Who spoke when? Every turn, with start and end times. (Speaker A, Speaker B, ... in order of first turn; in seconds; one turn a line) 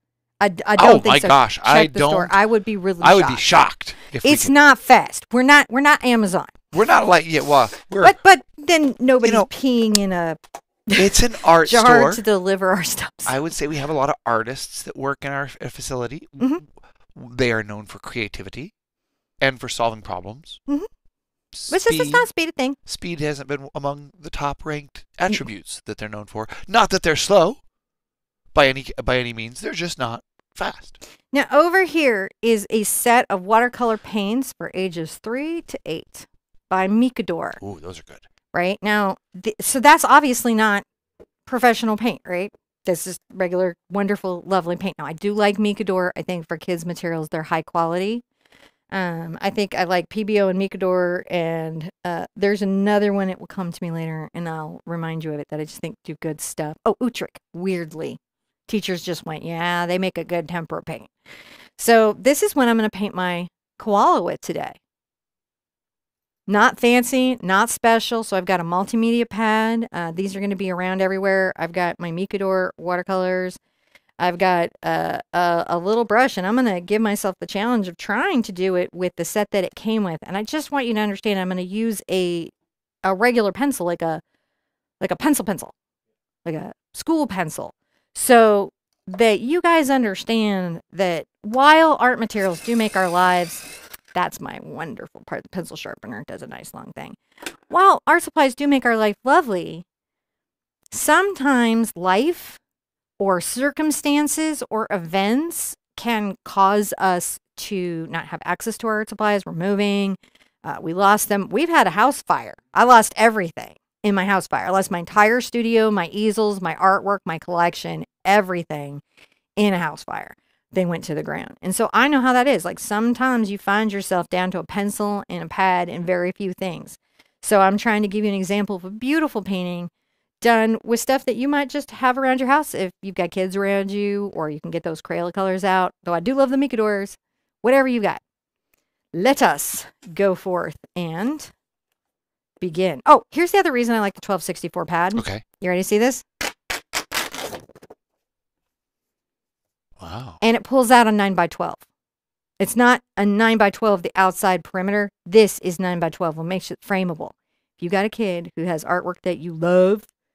Speaker A: 0.4-3.6
Speaker B: 0.8-2.3
Speaker B: 3.0-4.5
Speaker A: 4.2-6.5
Speaker B: 6.7-8.2
Speaker A: 8.0-13.3
Speaker B: 9.2-9.5
Speaker B: 10.9-12.2
Speaker B: 13.2-18.7
Speaker B: 19.4-20.6
Speaker B: 21.5-22.2
Speaker A: 21.7-22.8
Speaker B: 22.8-27.6
Speaker B: 28.5-31.0
Speaker A: 31.3-37.6
Speaker B: 37.6-38.2
Speaker A: 38.5-40.8
Speaker A: 41.5-48.2
Speaker A: 48.9-61.1
Speaker A: 61.8-64.8
Speaker A: 66.5-73.6
Speaker A: 74.2-82.5
Speaker A: 83.0-84.2
Speaker A: 85.0-85.7
Speaker A: 86.4-97.2
Speaker A: 97.7-99.8
Speaker A: 100.9-102.6
Speaker A: 103.2-119.0
Speaker A: 119.6-129.9
Speaker A: 130.4-138.2
Speaker A: 139.1-141.5
Speaker A: 142.6-146.2
Speaker B: 145.2-145.4
Speaker B: 150.0-150.4
Speaker A: 150.4-151.8
Speaker A: 152.6-160.1